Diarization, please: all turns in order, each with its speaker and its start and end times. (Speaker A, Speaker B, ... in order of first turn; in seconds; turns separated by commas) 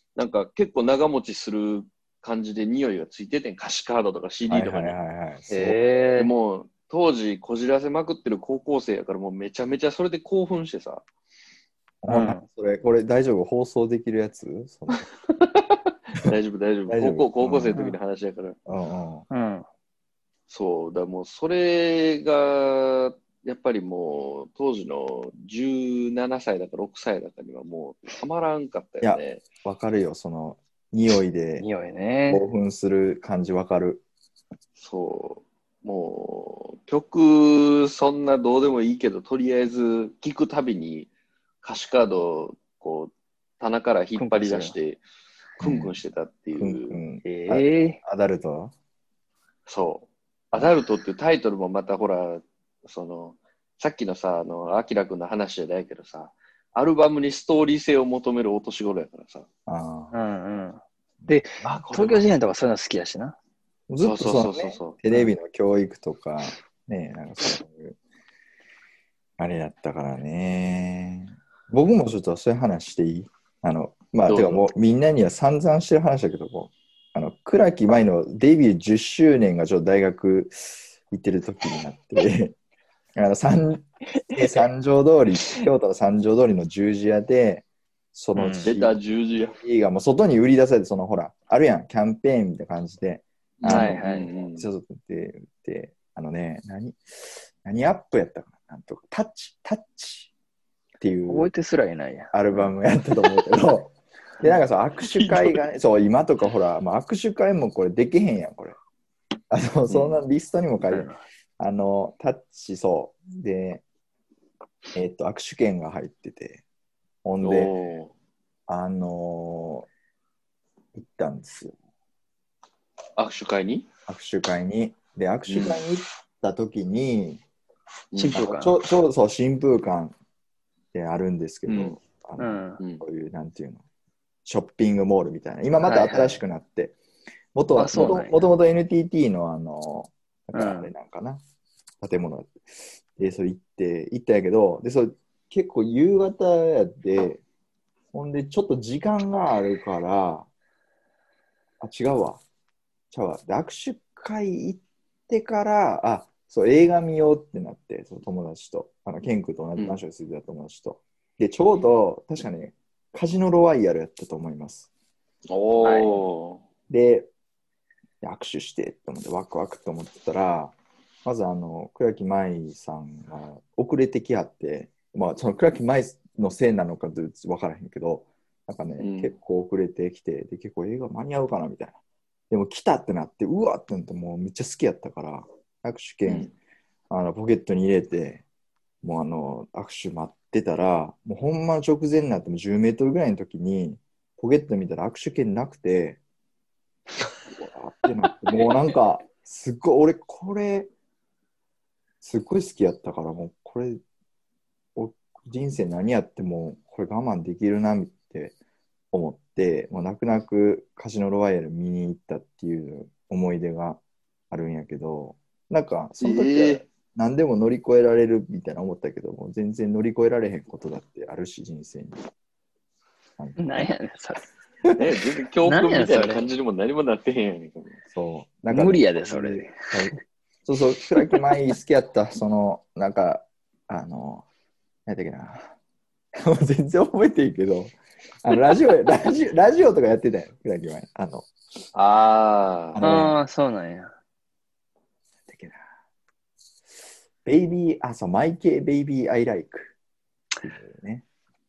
Speaker A: 0.1-5.0, Speaker B: 4.5-5.8, Speaker C: 5.5-6.3, Speaker A: 6.2-11.0, Speaker B: 12.0-15.1, Speaker C: 12.1-12.4, Speaker A: 14.9-18.6, Speaker B: 16.9-17.8, Speaker B: 18.6-19.2, Speaker C: 19.3-19.6, Speaker A: 20.5-29.4, Speaker B: 29.0-31.6, Speaker C: 31.6-32.4, Speaker B: 32.3-34.0, Speaker A: 34.8-41.1, Speaker A: 41.6-45.0, Speaker C: 44.1-44.8, Speaker A: 45.6-47.0, Speaker B: 45.6-45.9, Speaker B: 46.5-48.7, Speaker C: 47.2-48.0, Speaker A: 49.7-59.5, Speaker B: 59.6-60.1, Speaker C: 60.1-63.4, Speaker A: 61.6-62.3, Speaker B: 63.9-68.0, Speaker A: 64.0-65.0, Speaker B: 69.4-82.5, Speaker A: 74.3-74.7, Speaker B: 83.2-97.0, Speaker C: 88.3-88.7, Speaker A: 88.6-89.6, Speaker A: 93.6-94.7, Speaker C: 93.6-94.3, Speaker B: 97.6-100.3, Speaker B: 101.0-101.5, Speaker C: 101.3-102.7, Speaker B: 102.3-108.8, Speaker A: 105.1-105.5, Speaker B: 109.5-113.8, Speaker A: 109.9-110.2, Speaker C: 110.8-111.2, Speaker B: 114.9-116.6, Speaker B: 117.2-117.7, Speaker A: 117.4-118.1, Speaker B: 118.7-119.9, Speaker B: 120.9-121.7, Speaker A: 123.2-123.8, Speaker B: 124.1-127.4, Speaker A: 125.5-125.8, Speaker A: 128.1-128.5, Speaker C: 128.2-128.8, Speaker B: 128.3-130.1, Speaker B: 130.9-133.8, Speaker A: 131.7-132.0, Speaker C: 132.4-132.8, Speaker B: 134.4-136.9, Speaker C: 135.8-136.4, Speaker B: 137.5-141.4, Speaker C: 137.7-138.5, Speaker C: 140.5-140.9, Speaker B: 142.0-147.4, Speaker B: 148.1-150.5, Speaker B: 151.8-152.4, Speaker B: 153.1-164.9, Speaker A: 165.5-166.6, Speaker C: 165.8-166.2, Speaker B: 166.9-167.3, Speaker B: 168.2-182.0, Speaker A: 179.0-179.3, Speaker B: 182.5-186.5, Speaker A: 186.2-186.5, Speaker B: 187.1-188.4, Speaker B: 189.0-196.2, Speaker B: 197.5-200.9, Speaker B: 202.2-204.0, Speaker B: 204.9-208.5, Speaker B: 209.1-222.2, Speaker A: 216.2-216.8, Speaker B: 223.4-223.9, Speaker C: 223.6-224.4, Speaker A: 224.9-228.0, Speaker C: 225.6-226.5, Speaker B: 228.1-234.4, Speaker C: 228.7-229.8, Speaker B: 235.1-235.7, Speaker B: 236.4-241.5, Speaker A: 241.9-243.1, Speaker B: 242.9-243.4, Speaker C: 243.0-244.1, Speaker B: 245.5-245.8, Speaker B: 247.4-249.9, Speaker B: 250.6-251.2